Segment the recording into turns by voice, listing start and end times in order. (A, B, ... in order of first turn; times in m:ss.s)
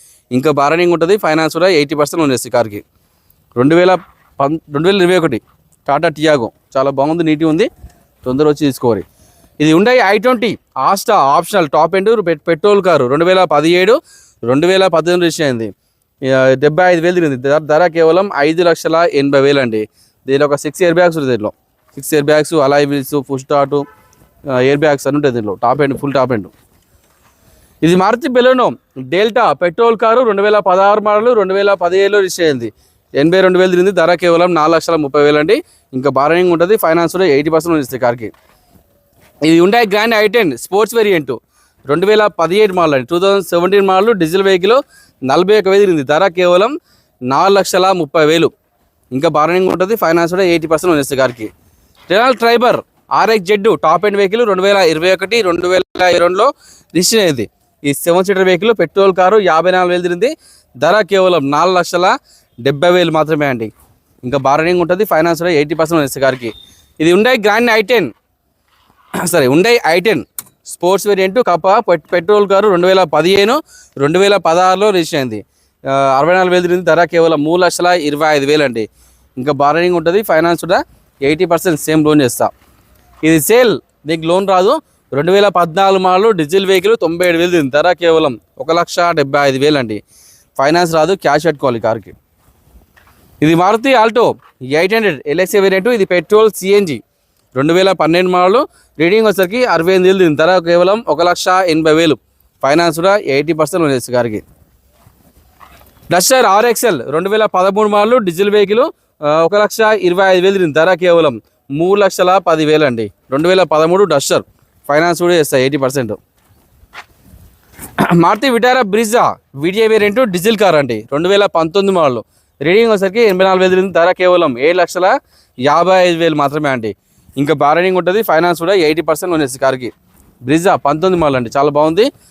0:00.3-0:02.8 A
0:03.6-0:07.7 A
0:08.2-0:09.0 A
0:09.6-0:15.7 A
0:16.2-0:23.8 A
0:24.5-0:26.5 A
0:27.8-0:38.3 A
0:39.4-0:41.4 A
0:41.9-0:46.7 A
0:47.3-0:48.5 A
0:49.1-0:51.5 A
0:52.1-1:03.7 A
1:04.2-1:08.1 A
1:09.2-1:18.8 A
1:19.4-1:22.5 A
1:23.2-1:30.0 A
1:30.6-1:32.1 A
1:33.4-1:37.0 A
1:37.5-1:44.4 A
1:46.1-1:56.2 A
1:58.0-2:09.9 A
2:10.4-2:12.1 A